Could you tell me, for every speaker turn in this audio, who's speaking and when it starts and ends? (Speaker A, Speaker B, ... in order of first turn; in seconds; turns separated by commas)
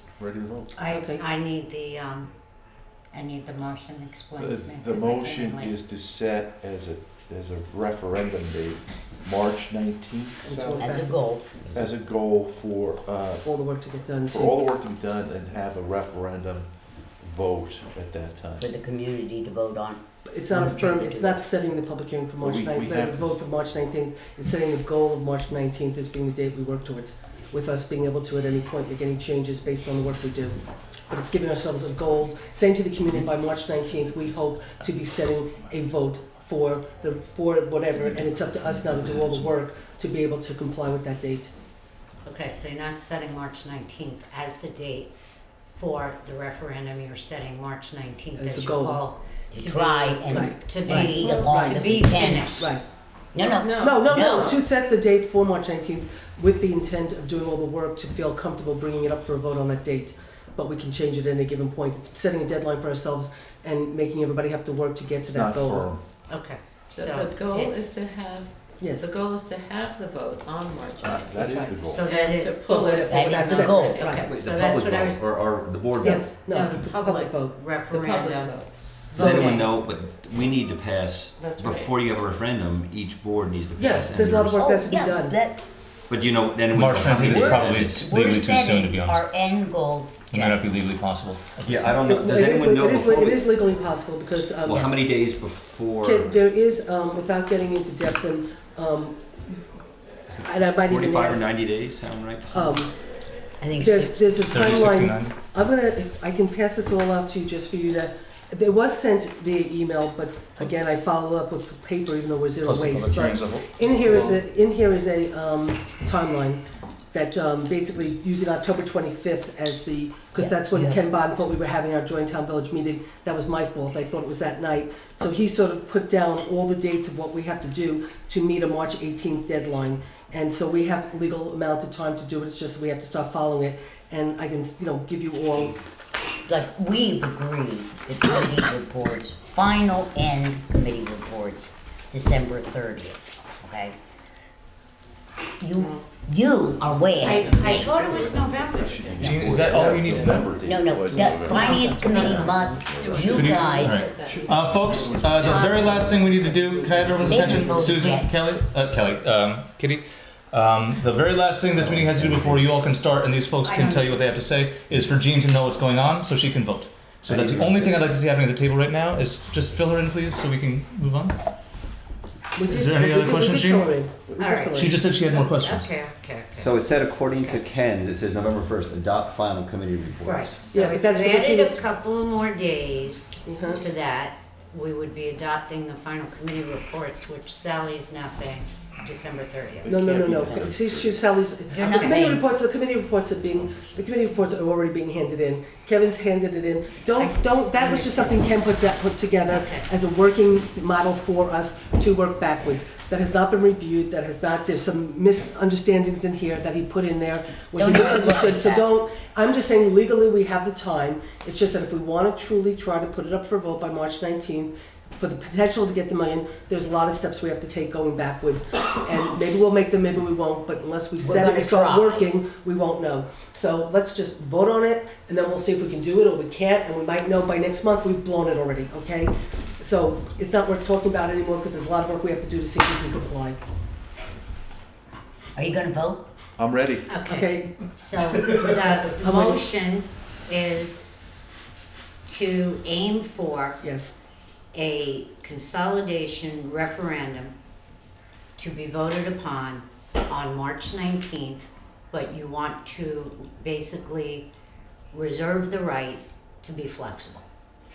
Speaker A: 0.2-0.7, Speaker B: 0.7-2.3, Speaker C: 0.8-1.2, Speaker B: 3.1-5.8, Speaker A: 4.4-11.0, Speaker C: 10.4-11.1, Speaker D: 10.8-11.7, Speaker A: 11.7-13.4, Speaker C: 13.4-14.6, Speaker A: 14.3-18.7, Speaker D: 18.6-21.4, Speaker C: 20.2-41.5, Speaker A: 22.4-23.4, Speaker B: 42.2-45.1, Speaker B: 45.7-52.8, Speaker C: 48.4-49.0, Speaker D: 49.5-52.8, Speaker C: 50.3-52.8, Speaker D: 53.3-54.6, Speaker E: 53.5-54.1, Speaker C: 53.7-65.9, Speaker A: 65.3-66.0, Speaker B: 66.3-68.0, Speaker E: 66.9-74.3, Speaker C: 68.8-69.1, Speaker A: 71.0-72.1, Speaker B: 71.8-73.0, Speaker C: 72.7-74.2, Speaker D: 73.0-74.0, Speaker B: 74.0-79.6, Speaker F: 74.2-76.3, Speaker C: 76.0-77.5, Speaker E: 77.9-79.5, Speaker C: 79.1-79.6, Speaker F: 79.1-84.7, Speaker E: 81.4-82.0, Speaker C: 83.8-85.4, Speaker D: 84.6-85.6, Speaker F: 86.1-88.0, Speaker G: 86.7-89.2, Speaker D: 87.2-90.7, Speaker G: 90.2-91.9, Speaker F: 91.6-93.5, Speaker C: 92.0-94.8, Speaker F: 94.7-96.4, Speaker C: 96.0-99.3, Speaker F: 100.3-102.8, Speaker C: 100.4-101.5, Speaker C: 102.5-102.9, Speaker D: 103.6-104.4, Speaker C: 103.8-116.6, Speaker G: 104.5-105.4, Speaker G: 112.6-114.4, Speaker C: 117.1-135.8, Speaker G: 120.5-121.0, Speaker D: 136.5-143.9, Speaker D: 145.6-147.9, Speaker E: 145.8-146.1, Speaker A: 147.2-157.3, Speaker B: 147.2-149.4, Speaker E: 147.4-148.4, Speaker G: 149.2-150.6, Speaker E: 149.4-150.5, Speaker D: 150.6-154.1, Speaker E: 151.1-157.9, Speaker B: 151.5-152.2, Speaker G: 153.3-171.3, Speaker B: 155.4-155.8, Speaker D: 157.2-158.3, Speaker F: 161.8-162.5, Speaker D: 163.6-164.2, Speaker F: 167.3-167.9, Speaker C: 172.6-174.9, Speaker G: 172.7-174.0, Speaker B: 174.4-177.6, Speaker G: 174.7-175.9, Speaker F: 176.6-180.7, Speaker B: 180.2-190.0, Speaker C: 180.7-181.8, Speaker C: 183.4-183.8, Speaker A: 189.8-191.1, Speaker C: 189.8-233.6, Speaker D: 191.7-192.5, Speaker D: 197.8-198.4, Speaker B: 199.5-199.9, Speaker D: 207.8-208.9, Speaker D: 221.2-222.2, Speaker D: 235.6-236.2, Speaker A: 236.6-237.1, Speaker B: 237.1-241.2, Speaker C: 237.2-237.8, Speaker C: 239.2-239.6, Speaker B: 242.2-243.8, Speaker C: 243.8-244.1, Speaker B: 244.7-247.5, Speaker B: 248.6-254.5, Speaker B: 255.1-257.4